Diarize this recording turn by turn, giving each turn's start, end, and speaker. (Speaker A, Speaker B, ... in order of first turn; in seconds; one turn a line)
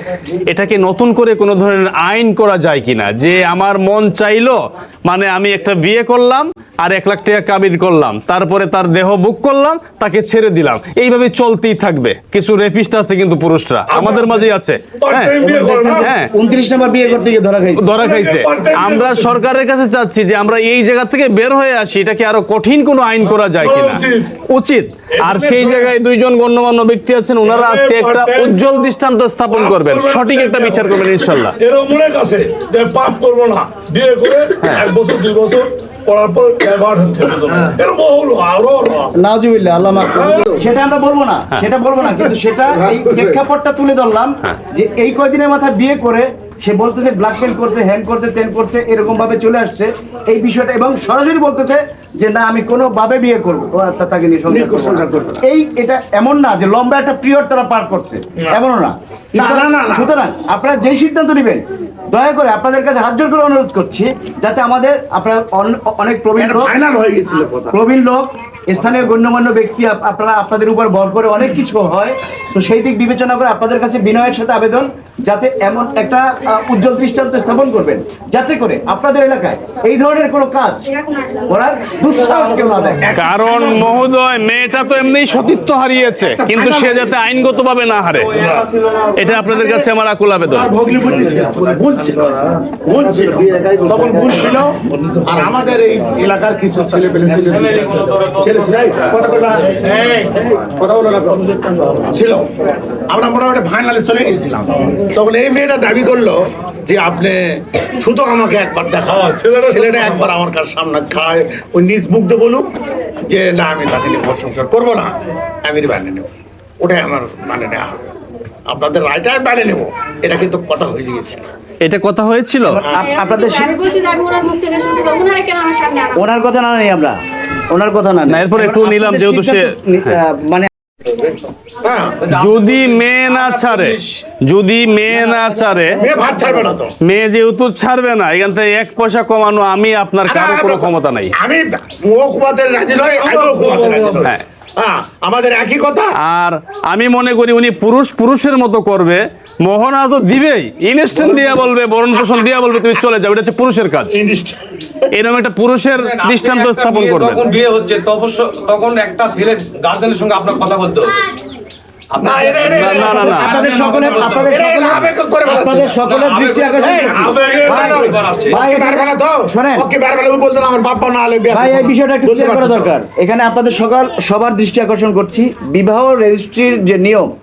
Speaker A: 0.5-15.3
Speaker B: 13.9-16.1
Speaker C: 15.4-17.9
Speaker A: 15.9-16.3
Speaker A: 17.8-31.5
Speaker B: 17.9-19.4
Speaker B: 23.3-24.3
Speaker B: 25.2-25.9
Speaker B: 27.4-28.9
Speaker B: 29.5-39.2
Speaker C: 39.1-66.7
Speaker B: 40.0-40.6
Speaker D: 54.5-55.4
Speaker D: 59.3-60.1
Speaker D: 66.3-67.8
Speaker C: 67.7-80.9
Speaker C: 81.5-83.1
Speaker D: 82.3-84.0
Speaker A: 83.1-88.3
Speaker D: 86.2-87.1
Speaker B: 88.3-88.8
Speaker E: 88.3-89.2
Speaker A: 89.2-90.7
Speaker D: 89.5-89.8
Speaker D: 90.5-99.8
Speaker B: 91.1-92.6
Speaker C: 93.0-94.3
Speaker B: 94.0-95.8
Speaker E: 97.3-100.0
Speaker D: 100.8-112.7
Speaker B: 109.1-110.3
Speaker D: 113.2-116.3
Speaker D: 116.8-118.0
Speaker D: 118.7-121.4
Speaker A: 121.8-122.8
Speaker C: 122.7-123.7
Speaker F: 123.1-126.2
Speaker C: 126.1-127.2
Speaker C: 127.7-130.7
Speaker A: 128.3-130.2
Speaker D: 131.8-132.2
Speaker E: 132.3-134.2
Speaker A: 132.3-136.0
Speaker D: 136.0-136.9
Speaker E: 136.0-136.3
Speaker A: 137.0-141.3
Speaker D: 140.2-146.1
Speaker B: 143.2-144.3
Speaker A: 146.2-154.2
Speaker D: 154.1-154.6
Speaker A: 155.1-157.5
Speaker E: 156.0-161.1
Speaker E: 162.2-164.6
Speaker D: 162.2-163.4
Speaker A: 162.7-163.5
Speaker C: 163.2-169.9
Speaker D: 164.4-165.9
Speaker E: 165.9-168.6
Speaker D: 166.8-172.9
Speaker B: 167.1-168.4
Speaker C: 171.5-177.3